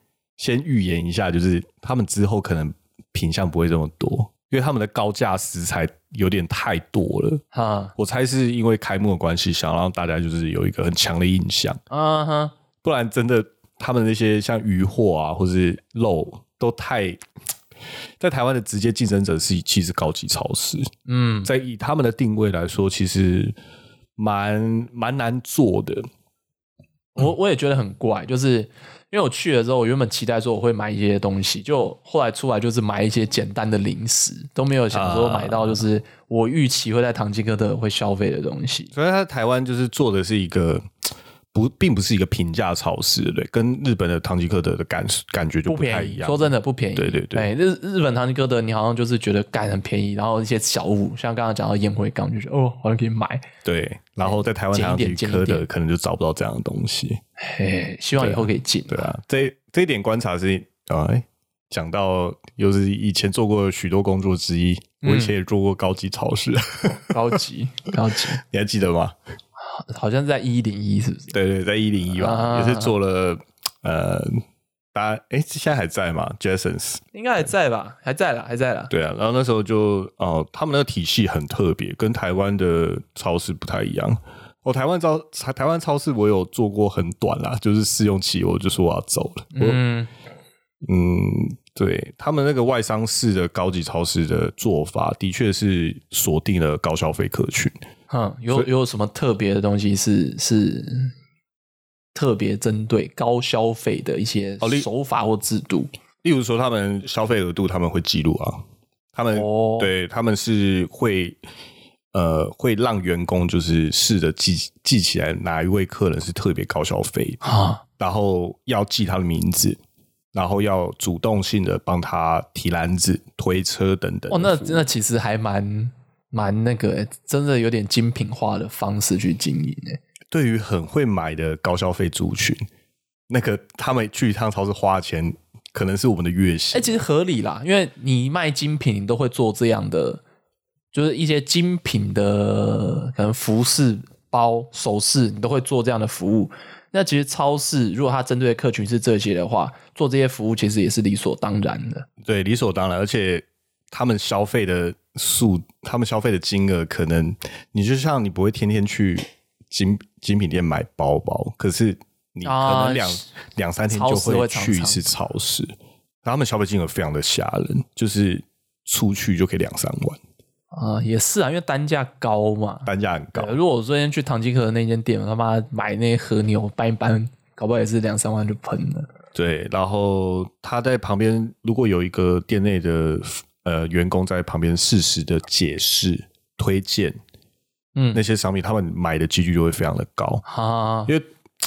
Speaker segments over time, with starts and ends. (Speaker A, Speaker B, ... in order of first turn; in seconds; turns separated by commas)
Speaker A: 0.4-7.4, Speaker B: 7.5-7.9, Speaker A: 8.0-11.8, Speaker B: 11.9-12.5, Speaker A: 12.8-17.2, Speaker A: 18.2-20.9, Speaker B: 21.1-21.5, Speaker A: 21.4-23.5, Speaker A: 24.2-26.1, Speaker B: 27.1-38.9, Speaker A: 34.9-35.8, Speaker A: 38.9-47.5, Speaker B: 45.7-53.5, Speaker A: 53.6-57.2, Speaker B: 54.2-55.6, Speaker B: 57.4-59.1, Speaker A: 58.2-67.4, Speaker B: 65.0-65.3, Speaker B: 66.9-68.4, Speaker A: 68.4-69.1, Speaker B: 69.6-71.3, Speaker A: 71.3-74.4, Speaker B: 72.2-72.9, Speaker A: 74.9-77.0, Speaker B: 77.1-78.9, Speaker A: 78.9-89.8, Speaker B: 89.5-90.1, Speaker A: 90.8-97.7, Speaker B: 98.1-101.1, Speaker B: 102.1-105.9, Speaker A: 104.6-104.9, Speaker A: 106.2-108.6, Speaker A: 109.1-111.4, Speaker B: 109.3-109.9, Speaker A: 112.1-117.4, Speaker B: 117.4-117.8, Speaker A: 118.0-119.8, Speaker A: 120.3-124.9, Speaker B: 124.3-130.0, Speaker A: 130.3-132.6, Speaker A: 133.3-137.0, Speaker B: 136.7-140.2, Speaker B: 140.9-152.1, Speaker A: 152.2-165.7, Speaker B: 162.4-163.3, Speaker B: 163.9-165.0, Speaker A: 166.2-170.2, Speaker B: 170.7-179.1, Speaker A: 172.8-173.5, Speaker A: 179.3-187.2, Speaker B: 187.9-188.2, Speaker A: 188.1-190.4, Speaker B: 190.4-191.1